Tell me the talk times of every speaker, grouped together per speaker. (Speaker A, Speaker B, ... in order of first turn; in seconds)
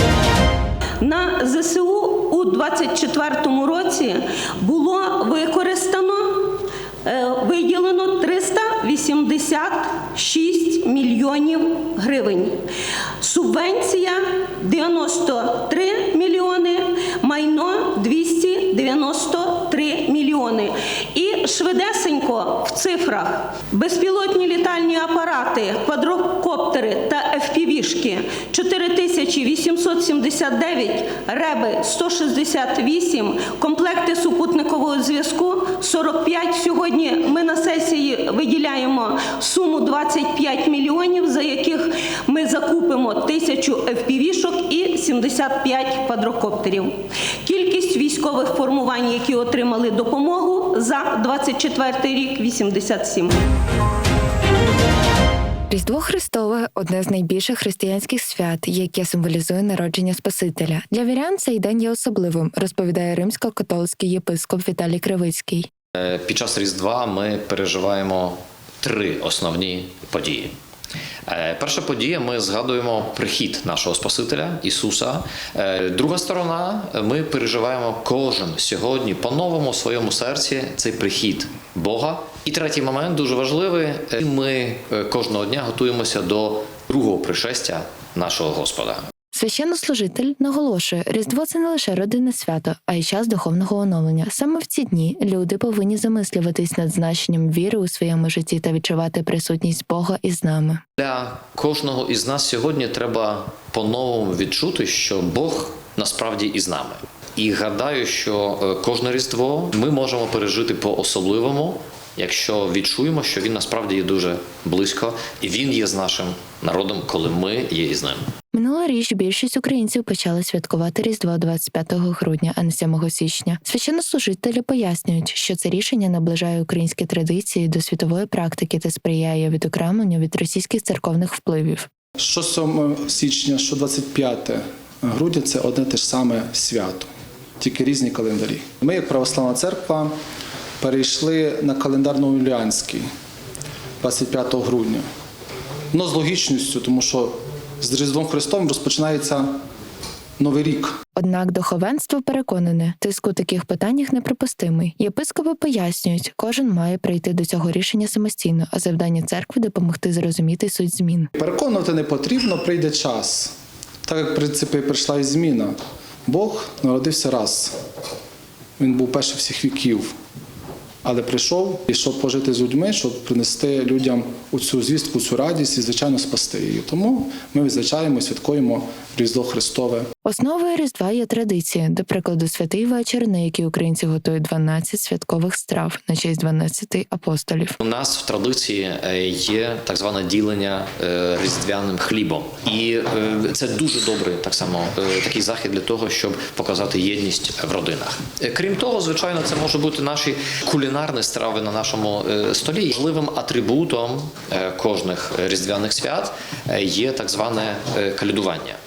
Speaker A: 1.0-12.6, 13.2-53.4
Speaker B: 55.7-65.7, 89.3-100.8, 118.5-131.9, 151.2-161.3, 180.2-187.8
Speaker C: 66.0-70.5, 71.3-89.0, 101.0-118.2, 187.8-208.8
Speaker D: 132.2-140.2, 140.8-143.1, 144.0-145.1, 145.9-149.6, 150.4-150.9, 161.4-163.5, 164.1-165.8, 166.3-167.7, 168.8-170.1, 171.0-180.1